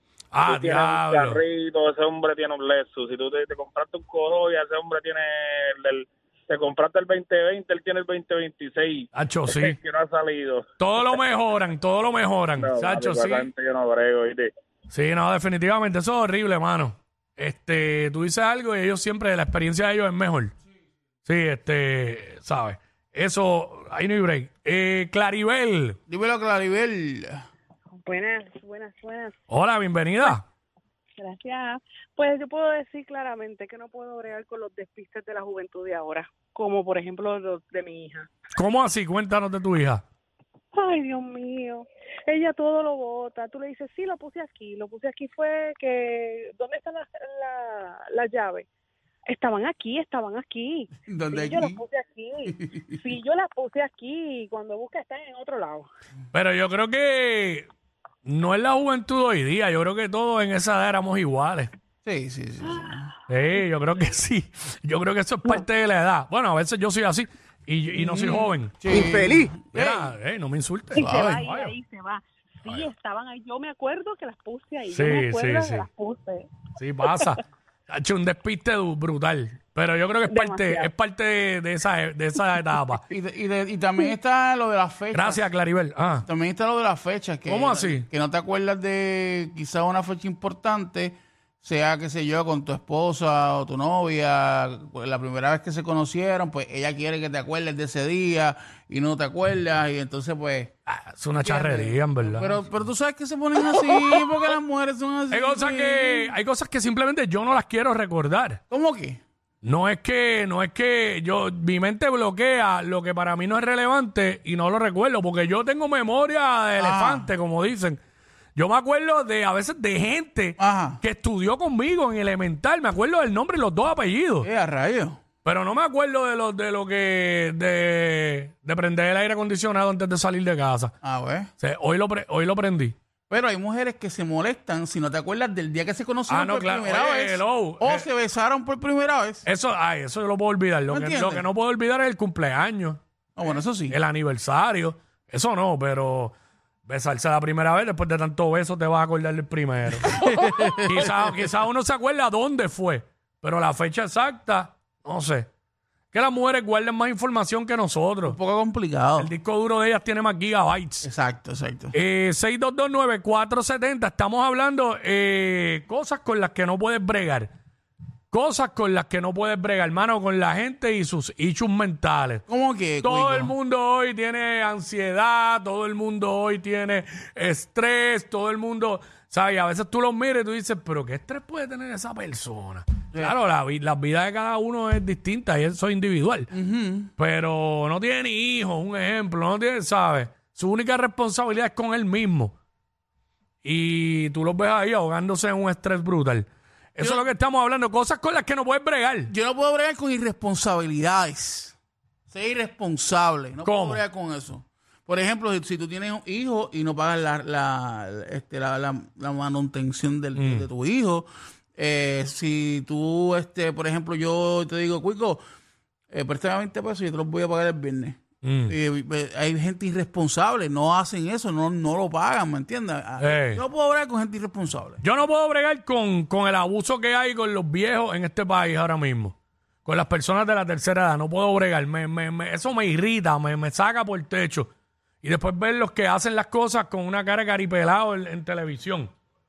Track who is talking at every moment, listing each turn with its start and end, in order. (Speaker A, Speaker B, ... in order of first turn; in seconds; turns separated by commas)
Speaker A: 0.3-1.4, Speaker B: 0.4-10.7, Speaker A: 9.1-9.8, Speaker A: 10.8-13.5, Speaker B: 12.6-14.5, Speaker A: 14.9-20.5, Speaker A: 21.2-26.0, Speaker C: 26.1-27.4, Speaker D: 28.0-29.3, Speaker A: 29.5-30.4, Speaker D: 31.2-38.3, Speaker A: 38.5-40.0, Speaker D: 40.7-48.6, Speaker D: 49.3-55.9, Speaker C: 51.0-51.8, Speaker C: 52.5-52.8, Speaker A: 56.3-57.7, Speaker A: 58.2-61.7, Speaker C: 62.0-63.1, Speaker A: 63.3-69.1, Speaker C: 67.9-70.1, Speaker A: 69.7-71.7, Speaker D: 70.9-76.5, Speaker C: 71.0-71.4, Speaker A: 74.9-75.8, Speaker A: 76.8-83.0, Speaker D: 77.0-77.4, Speaker D: 80.3-80.9, Speaker C: 83.1-85.4, Speaker A: 85.1-86.2, Speaker C: 86.3-100.7, Speaker A: 87.5-88.0, Speaker A: 100.9-102.6, Speaker C: 101.4-106.3, Speaker A: 105.3-108.6, Speaker C: 108.7-109.2, Speaker A: 109.6-118.0, Speaker C: 116.8-117.3, Speaker A: 118.5-124.5, Speaker C: 120.6-121.0, Speaker C: 124.4-125.2, Speaker A: 125.4-130.9, Speaker C: 131.0-131.5, Speaker A: 131.6-132.9, Speaker C: 133.3-139.4, Speaker A: 136.3-138.0, Speaker A: 139.4-143.0, Speaker C: 140.9-141.4, Speaker C: 143.3-144.0, Speaker A: 143.9-146.3, Speaker A: 146.8-155.5, Speaker C: 150.0-151.4, Speaker A: 156.1-158.3, Speaker C: 158.2-159.3, Speaker A: 159.2-161.1, Speaker C: 161.0-161.9, Speaker A: 161.9-167.5, Speaker A: 168.3-172.4, Speaker C: 172.5-173.5, Speaker A: 173.0-186.5, Speaker C: 186.5-187.1, Speaker A: 187.2-192.5, Speaker A: 193.6-199.3, Speaker C: 197.0-197.2, Speaker C: 199.3-201.8, Speaker C: 202.3-215.4, Speaker A: 203.6-204.0, Speaker A: 210.4-210.7, Speaker C: 216.1-225.0, Speaker A: 218.4-218.7, Speaker A: 223.2-223.6, Speaker A: 225.0-234.7, Speaker A: 235.2-239.1